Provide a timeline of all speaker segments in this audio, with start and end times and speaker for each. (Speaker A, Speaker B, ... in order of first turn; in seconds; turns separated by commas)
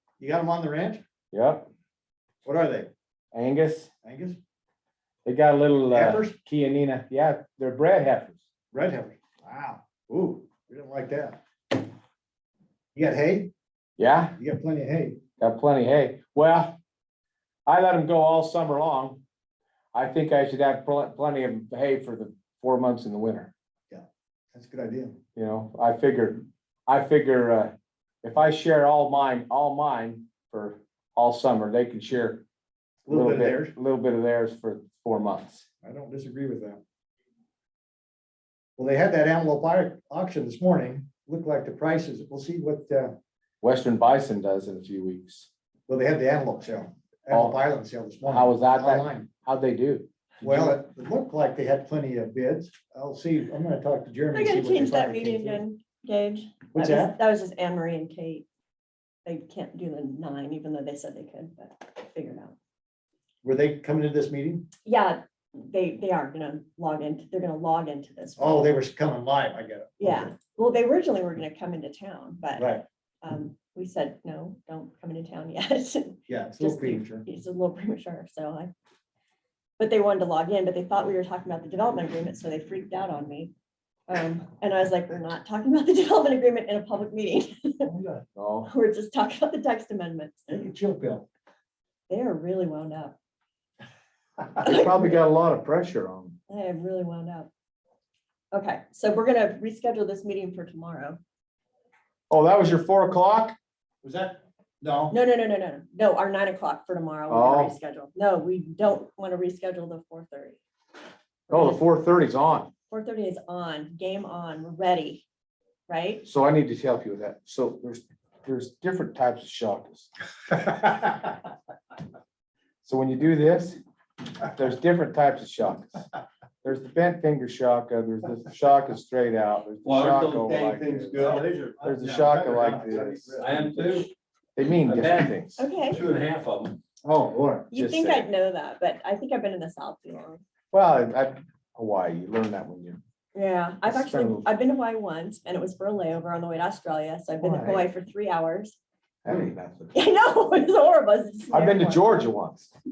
Speaker A: 0.2-1.0, Speaker B: 1.3-1.7, Speaker A: 2.4-2.9, Speaker B: 3.3-3.9, Speaker A: 4.0-4.4, Speaker B: 5.2-8.4, Speaker A: 5.9-6.3, Speaker A: 8.7-11.4, Speaker A: 12.9-13.5, Speaker B: 14.0-14.3, Speaker A: 14.4-15.2, Speaker B: 15.4-16.8, Speaker B: 17.6-19.2, Speaker B: 19.9-23.5, Speaker A: 23.9-25.2, Speaker B: 25.4-32.4, Speaker A: 33.0-33.7, Speaker B: 33.1-35.6, Speaker A: 35.8-36.8, Speaker A: 38.8-43.2, Speaker B: 43.6-45.5, Speaker A: 45.9-49.3, Speaker B: 47.3-47.6, Speaker B: 48.2-50.8, Speaker A: 50.4-55.6, Speaker C: 54.3-58.5, Speaker A: 56.7-57.2, Speaker C: 59.2-62.5, Speaker A: 63.4-64.7, Speaker C: 64.8-68.7, Speaker A: 68.4-70.3, Speaker C: 70.0-78.7, Speaker A: 72.6-72.8, Speaker A: 76.3-77.2, Speaker C: 79.8-83.5, Speaker C: 84.1-87.9, Speaker A: 87.8-88.2, Speaker B: 88.3-88.7, Speaker C: 88.7-90.4, Speaker A: 90.5-91.3, Speaker C: 92.1-93.2, Speaker B: 94.6-96.4, Speaker C: 94.6-95.2, Speaker C: 96.5-97.5, Speaker C: 98.5-101.2, Speaker B: 102.3-103.5, Speaker A: 104.0-105.2, Speaker C: 105.1-110.6, Speaker B: 107.3-107.7, Speaker C: 111.5-111.8, Speaker B: 111.5-112.7, Speaker C: 112.9-115.2, Speaker C: 115.9-116.2, Speaker B: 116.2-120.1, Speaker B: 122.8-123.8, Speaker B: 124.5-126.0, Speaker B: 126.6-135.6, Speaker D: 129.8-131.6, Speaker A: 131.1-133.7, Speaker D: 133.4-134.1, Speaker D: 134.8-136.8, Speaker C: 135.6-136.0, Speaker A: 137.0-137.7, Speaker C: 137.7-140.4, Speaker B: 137.7-138.3, Speaker B: 140.7-143.0, Speaker C: 143.3-148.8, Speaker B: 143.8-144.5, Speaker B: 147.4-147.9, Speaker B: 149.2-149.9, Speaker C: 149.9-152.1, Speaker B: 151.5-152.7